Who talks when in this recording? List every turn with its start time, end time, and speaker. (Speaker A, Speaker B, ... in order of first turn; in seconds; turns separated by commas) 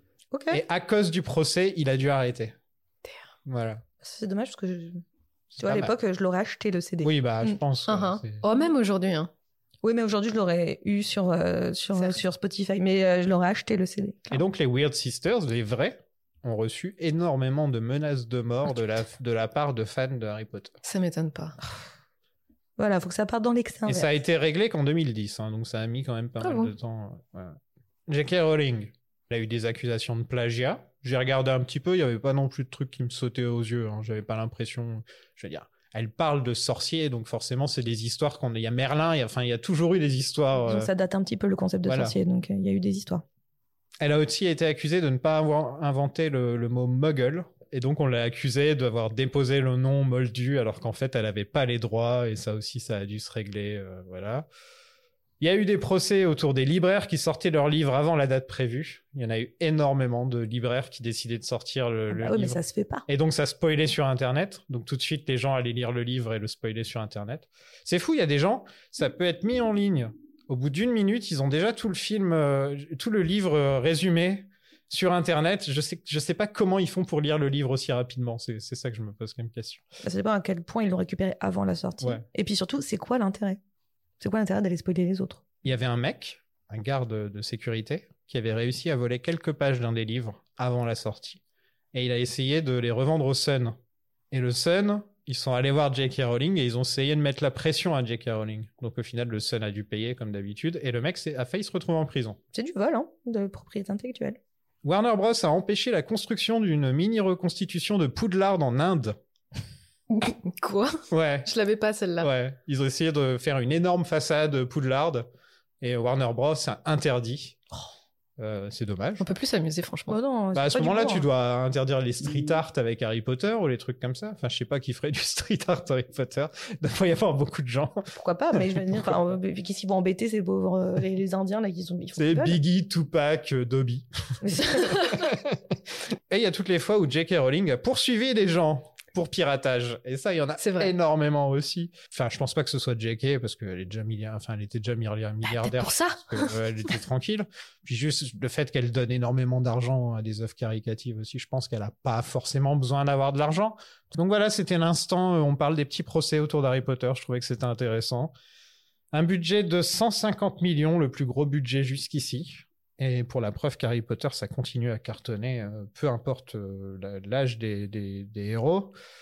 Speaker A: 0.3-0.6, Speaker B: 0.5-2.5, Speaker B: 3.5-3.8, Speaker A: 4.0-5.0, Speaker B: 5.5-5.9, Speaker A: 5.6-7.6, Speaker B: 7.0-8.4, Speaker C: 7.9-9.3, Speaker A: 9.8-14.4, Speaker B: 14.3-20.7, Speaker C: 20.8-21.6, Speaker A: 22.8-24.1, Speaker B: 23.9-40.9, Speaker C: 26.4-26.7, Speaker A: 40.6-43.2, Speaker B: 41.9-42.1, Speaker B: 44.0-54.5, Speaker B: 55.4-79.8, Speaker A: 62.1-63.0, Speaker A: 80.0-83.6, Speaker A: 84.2-85.4, Speaker B: 85.6-91.4, Speaker B: 91.9-93.8, Speaker B: 94.3-102.4, Speaker A: 102.5-104.4, Speaker B: 104.8-109.2, Speaker C: 110.1-112.3, Speaker B: 111.1-111.5, Speaker B: 112.2-115.3, Speaker B: 115.8-117.6, Speaker B: 118.4-119.3, Speaker C: 119.2-120.2, Speaker A: 120.1-121.3, Speaker B: 120.5-129.0, Speaker A: 128.1-132.6, Speaker B: 132.2-134.1, Speaker A: 134.4-135.0, Speaker B: 134.9-135.7, Speaker B: 136.3-158.3, Speaker C: 140.6-140.9, Speaker C: 145.4-146.6, Speaker B: 159.1-168.9